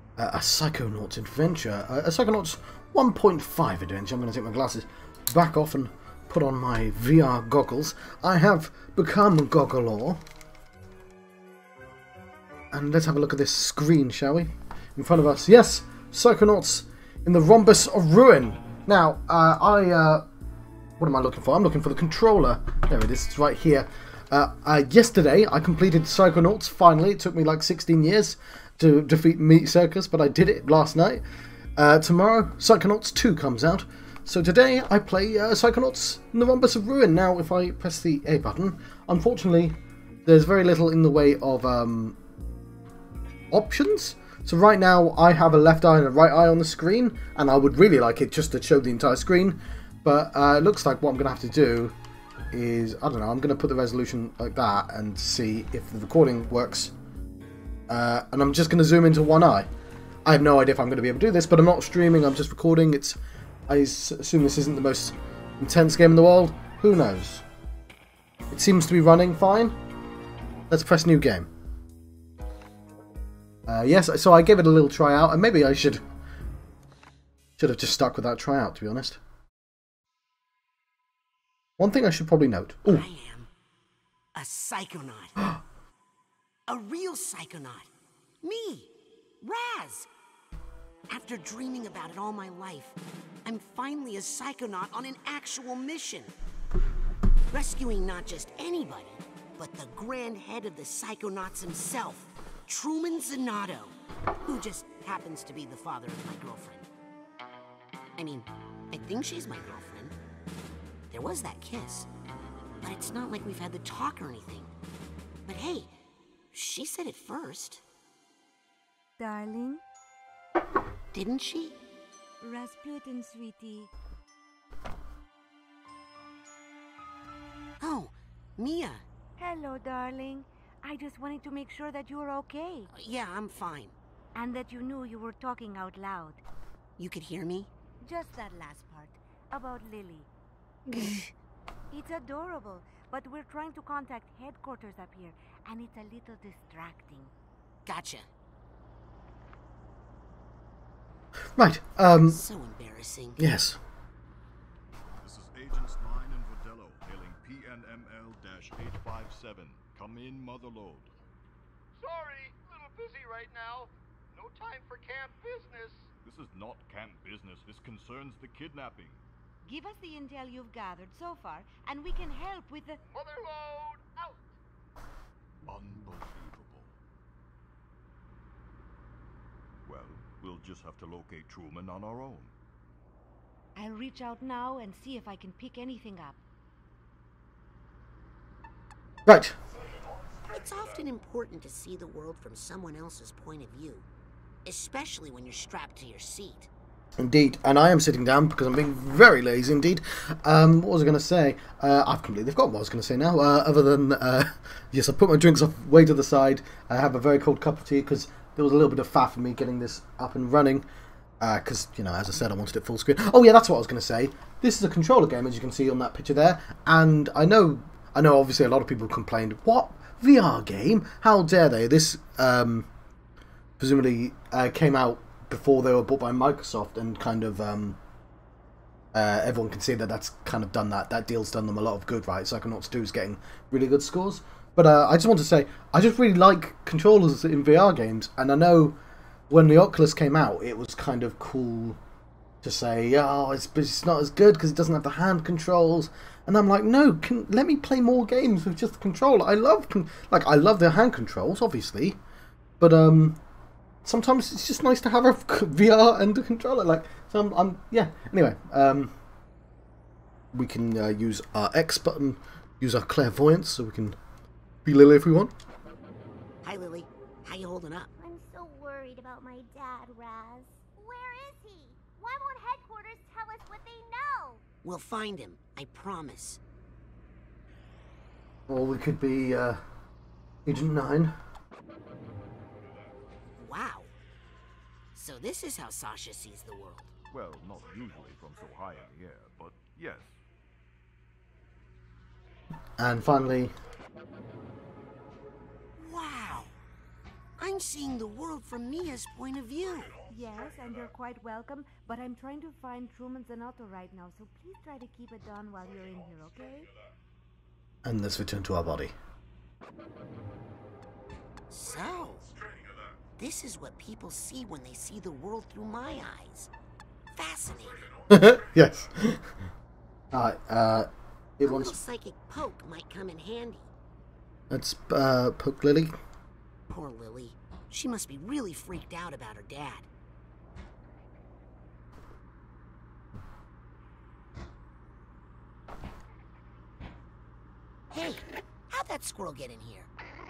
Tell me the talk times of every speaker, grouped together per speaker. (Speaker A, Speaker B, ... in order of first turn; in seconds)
Speaker A: 0.2-10.2, 12.7-20.3, 21.0-31.2, 31.8-42.2, 43.5-52.0, 52.5-56.9, 57.9-59.7, 60.2-67.5, 68.5-69.8, 70.7-71.5, 73.7-76.0, 77.6-79.2, 81.8-83.0, 151.6-152.4, 153.4-153.8, 189.3-189.6, 197.2-210.9, 211.4-222.9, 223.8-228.0, 229.1-239.0, 239.5-242.0, 242.6-252.2, 252.8-253.4, 254.0-259.1, 260.5-264.2, 264.9-265.5, 278.7-279.8, 280.7-281.4, 293.0-293.7, 308.0-309.1, 318.3-319.6, 320.3-322.0, 324.7-326.1
Speaker B: 82.9-83.5, 84.3-85.4, 86.7-87.9, 88.4-90.1, 91.1-96.3, 97.5-106.9, 108.2-110.2, 111.1-112.1, 112.8-114.7, 115.5-115.9, 116.5-117.8, 121.1-121.8, 127.8-129.1, 132.9-134.0, 137.0-137.7, 140.9-141.3, 147.9-148.3, 152.1-153.4, 190.5-194.1, 194.7-196.7, 266.6-268.1, 274.8-276.6, 283.6-284.1, 285.1-287.1, 296.0-296.8, 297.6-300.2, 311.7-312.6, 313.4-316.7, 317.3-318.1, 321.6-323.9, 326.9-330.1, 338.1-340.1
Speaker C: 119.2-119.8, 122.4-123.9, 129.4-132.9, 134.3-136.4, 138.0-140.3, 141.9-147.3, 169.6-173.0, 183.8-186.4, 300.3-306.9
Speaker D: 155.2-161.1, 166.2-169.2, 175.7-176.9, 179.8-182.5, 287.3-290.4
Speaker E: 162.0-166.1, 173.1-174.4
Speaker F: 268.2-274.6